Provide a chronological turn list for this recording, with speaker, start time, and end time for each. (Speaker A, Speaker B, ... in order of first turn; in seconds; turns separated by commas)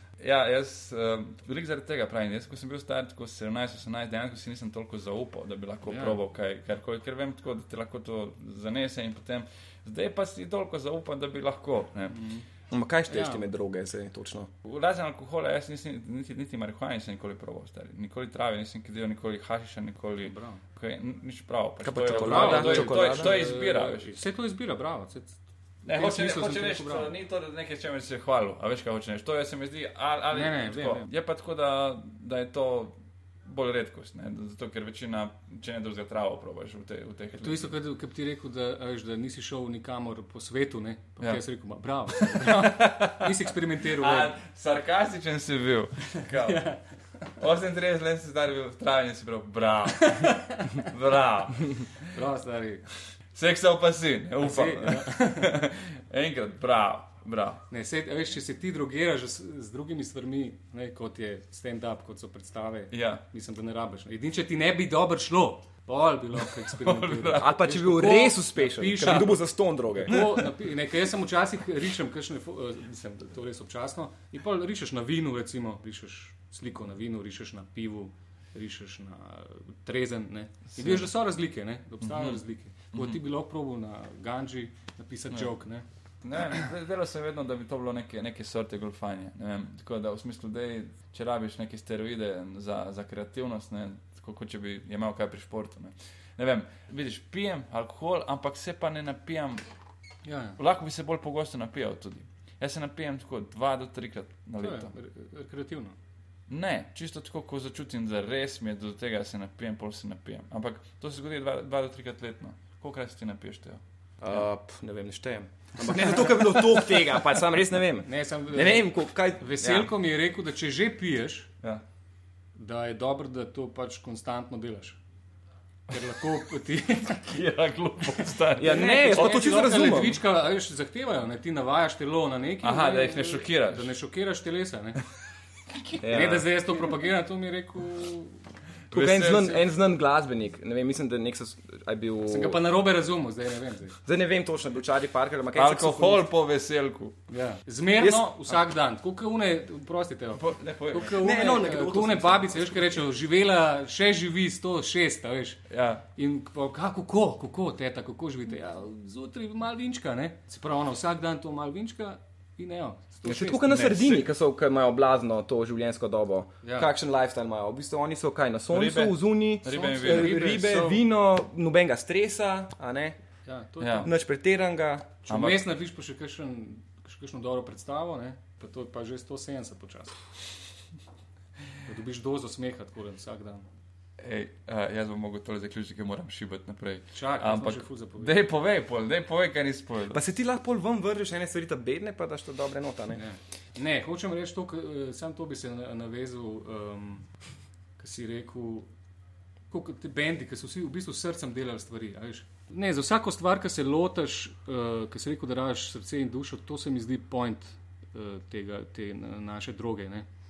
Speaker A: 0.2-12.3, Speaker B: 5.8-6.2, Speaker B: 12.1-12.4, Speaker C: 12.7-14.5, Speaker B: 13.1-13.4, Speaker A: 14.6-24.1, Speaker B: 20.2-20.6, Speaker C: 21.8-23.3, Speaker B: 22.1-25.4, Speaker A: 25.8-37.7, Speaker B: 25.9-27.1, Speaker B: 30.3-31.1, Speaker B: 37.4-44.4, Speaker A: 42.1-46.8, Speaker B: 46.5-46.8, Speaker A: 47.4-52.1, Speaker B: 50.0-50.7, Speaker B: 52.1-52.8, Speaker A: 53.3-57.6, Speaker B: 54.4-55.5, Speaker B: 57.7-69.4, Speaker A: 62.9-63.2, Speaker A: 66.4-67.7, Speaker C: 67.4-70.3, Speaker B: 70.0-85.8, Speaker A: 70.1-70.4, Speaker A: 80.8-81.1, Speaker A: 82.0-82.4, Speaker A: 82.9-83.2, Speaker A: 86.2-99.6, Speaker B: 100.2-100.6, Speaker A: 100.6-104.9, Speaker B: 104.6-105.9, Speaker A: 106.5-113.8, Speaker C: 114.2-119.9, Speaker B: 116.0-116.6, Speaker B: 118.0-121.5, Speaker B: 122.5-125.0, Speaker B: 125.9-127.2, Speaker A: 125.9-126.2, Speaker A: 126.8-129.4, Speaker C: 128.6-130.2, Speaker B: 128.6-135.0, Speaker A: 132.6-133.9, Speaker A: 135.7-136.3, Speaker C: 136.0-136.5, Speaker B: 136.0-138.4, Speaker A: 138.9-139.6, Speaker C: 138.9-142.6, Speaker B: 142.2-144.0, Speaker C: 144.0-146.3, Speaker A: 145.5-147.2, Speaker B: 147.3-155.6, Speaker C: 148.0-148.3, Speaker A: 150.3-151.2, Speaker C: 151.1-153.0, Speaker A: 155.7-156.0, Speaker B: 156.2-163.7, Speaker C: 163.2-173.2, Speaker A: 163.7-164.2, Speaker B: 166.6-166.9, Speaker A: 168.7-170.8, Speaker B: 169.6-171.0, Speaker B: 173.5-174.1, Speaker A: 173.8-174.1, Speaker C: 174.0-175.2, Speaker B: 175.2-180.2, Speaker A: 175.3-175.6, Speaker B: 181.8-183.6, Speaker A: 184.2-190.2, Speaker B: 187.1-188.4, Speaker C: 190.1-193.2, Speaker B: 193.1-197.3, Speaker B: 198.0-198.9, Speaker B: 199.7-210.2